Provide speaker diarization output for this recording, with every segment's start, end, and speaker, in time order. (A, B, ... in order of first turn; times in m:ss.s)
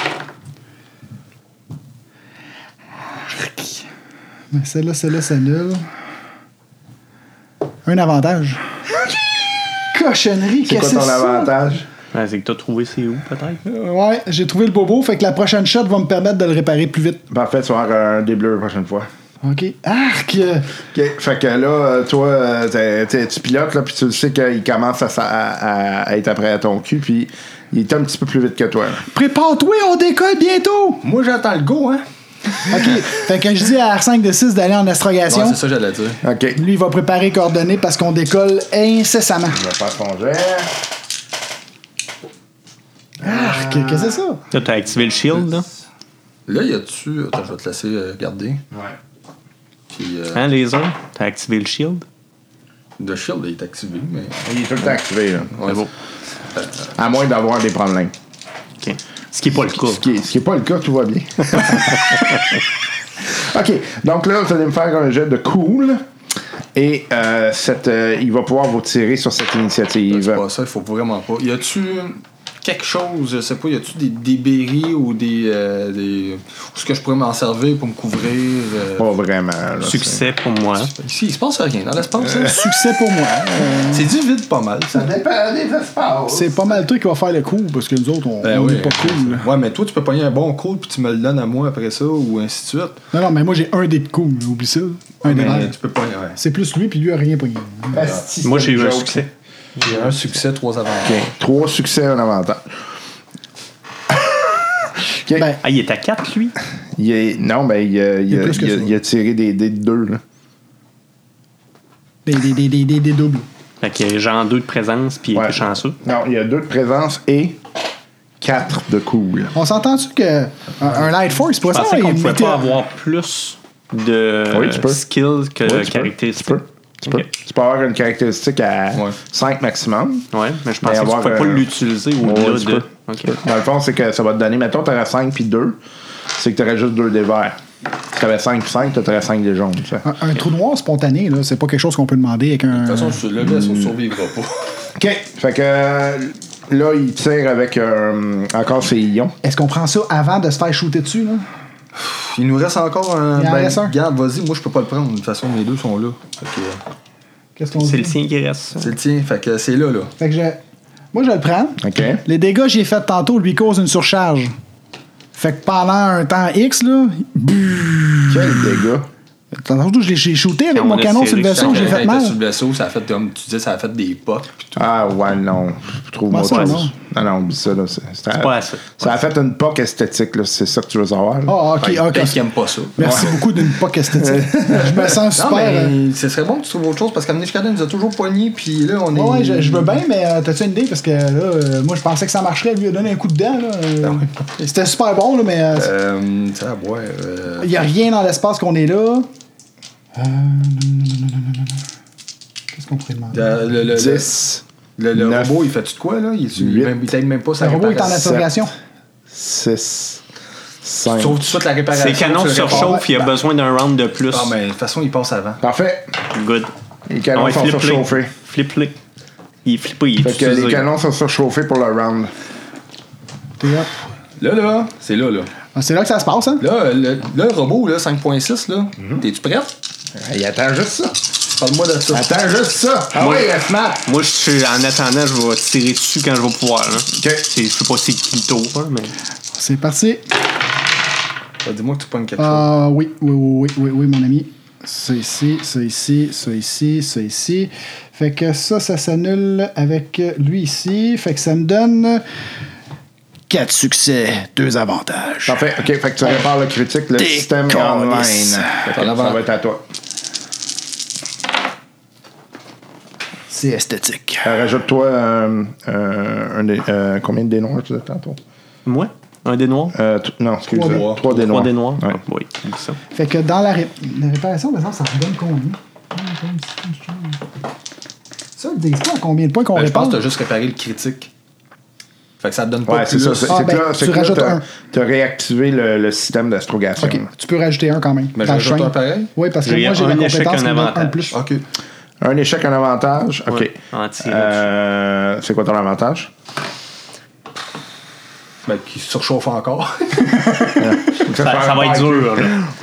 0:03.3-0:03.8 A
0:04.5-0:05.8 A
0:07.8-0:08.6 A
0:09.9-0:11.5 A
0:10.6-0:11.9 B
0:12.1-0:13.6 C
0:13.6-0:17.2 A
0:17.3-0:19.1 B
0:19.4-0:20.7 A
0:20.9-0:29.0 B
0:29.1-0:31.0 A
0:31.0-0:32.0 D
0:32.7-0:35.6 A
0:35.3-0:36.2 D
0:36.2-0:36.6 B
0:36.6-0:39.6 A
0:39.5-0:40.7 B
0:43.2-0:44.2 B
0:43.2-0:44.4 A
0:44.5-0:45.7 C
0:46.5-0:48.6 D
0:48.7-0:49.0 B
0:49.9-0:50.4 D
0:50.3-0:52.0 C
0:53.0-0:54.5 D
0:54.4-0:55.6 B
0:55.5-0:55.9 D
0:56.5-0:56.9 D
0:56.9-0:58.1 B
0:58.8-1:00.0 C
0:59.5-1:02.3 B
1:01.6-1:02.3 C
1:03.2-1:06.0 B
1:06.7-1:10.4 B
1:10.1-1:19.1 D
1:19.0-1:20.3 B
1:19.8-1:20.9 C
1:20.8-1:22.6 D
1:22.3-1:24.1 A
1:23.9-1:25.1 D
1:24.9-1:26.8 B
1:26.3-1:29.5 A
1:28.4-1:33.0 D
1:33.1-1:35.7 A
1:35.2-1:36.4 D
1:36.4-1:38.0 A
1:37.9-1:39.2 B
1:38.4-1:39.3 C
1:39.8-1:41.2 D
1:41.0-1:42.7 B
1:44.1-1:45.4 B
1:45.3-1:45.6 A
1:45.6-1:46.6 C
1:47.0-1:50.2 B
1:48.3-1:48.9 A
1:52.2-1:53.4 A
1:53.8-1:56.0 C
1:55.3-1:57.6 B
1:58.4-1:59.5 B
1:59.5-2:02.7 A
2:01.7-2:07.3 C
2:04.5-2:05.0 B
2:05.6-2:10.3 B
2:10.3-2:13.4 C
2:10.8-2:11.7 B
2:12.2-2:15.8 B
2:16.4-2:17.6 B
2:18.1-2:20.0 B
2:20.0-2:23.2 A
2:22.7-2:24.9 D
2:25.0-2:29.3 B
2:29.4-2:31.4 A
2:32.0-2:36.8 D
2:33.4-2:33.9 A
2:37.6-2:38.1 A
2:37.8-2:38.9 C
2:38.8-2:40.1 D
2:40.2-2:40.6 A
2:41.1-2:44.5 A
2:41.8-2:42.2 B
2:45.3-2:48.7 A
2:48.3-2:49.1 B
2:49.5-2:52.4 A
2:50.7-2:52.0 C
2:51.5-2:54.8 D
2:54.7-3:01.6 B
2:56.3-2:56.9 A
2:56.5-2:56.8 C
2:58.4-2:59.1 C
3:01.5-3:02.4 A
3:01.8-3:03.3 D
3:03.0-3:05.9 A
3:03.0-3:05.2 B
3:05.3-3:10.0 D
3:09.1-3:15.9 A
3:14.0-3:14.6 D
3:15.7-3:17.7 D
3:17.6-3:19.3 A
3:20.1-3:21.8 A
3:22.7-3:23.8 A
3:23.3-3:24.4 D
3:23.9-3:25.5 B
3:25.0-3:28.4 D
3:26.6-3:26.9 B
3:27.6-3:28.7 A
3:28.2-3:28.5 B
3:29.3-3:30.2 B
3:30.8-3:31.6 B
3:31.1-3:33.3 D
3:31.9-3:34.5 C
3:32.6-3:33.1 A
3:34.3-3:35.6 D
3:35.6-3:36.1 B
3:36.3-3:36.7 C
3:37.1-3:38.3 B
3:37.3-3:39.0 C
3:39.6-3:40.9 C
3:40.2-3:42.3 B
3:43.6-3:43.9 A
3:44.4-3:45.5 D
3:45.7-3:46.6 A
3:46.6-3:49.8 D
3:50.1-3:51.2 B
3:51.5-3:52.5 D
3:52.1-3:54.1 B
3:53.2-3:53.5 C
3:54.0-3:59.1 C
3:57.1-3:57.4 B
3:59.5-4:00.2 A
4:01.6-4:02.7 D
4:02.4-4:12.2 A
4:13.5-4:15.6 A
4:15.4-4:19.8 B
4:17.2-4:18.8 A
4:18.8-4:19.4 D
4:23.5-4:24.5 A
4:24.4-4:28.4 B
4:28.8-4:29.9 C
4:29.9-4:32.2 B
4:30.7-4:31.1 A
4:30.8-4:31.5 D
4:31.3-4:33.0 C
4:33.1-4:37.4 A
4:38.6-4:40.2 A
4:39.7-4:41.3 D
4:42.4-4:43.6 D
4:42.8-4:47.3 B
4:43.5-4:44.7 A
4:47.0-4:51.4 A
4:48.3-4:49.3 D
4:49.6-4:51.4 C
4:51.3-4:51.6 D
4:52.2-4:56.3 B
4:53.5-4:54.7 C
4:58.6-5:00.9 D
5:00.8-5:02.7 B
5:01.2-5:02.6 C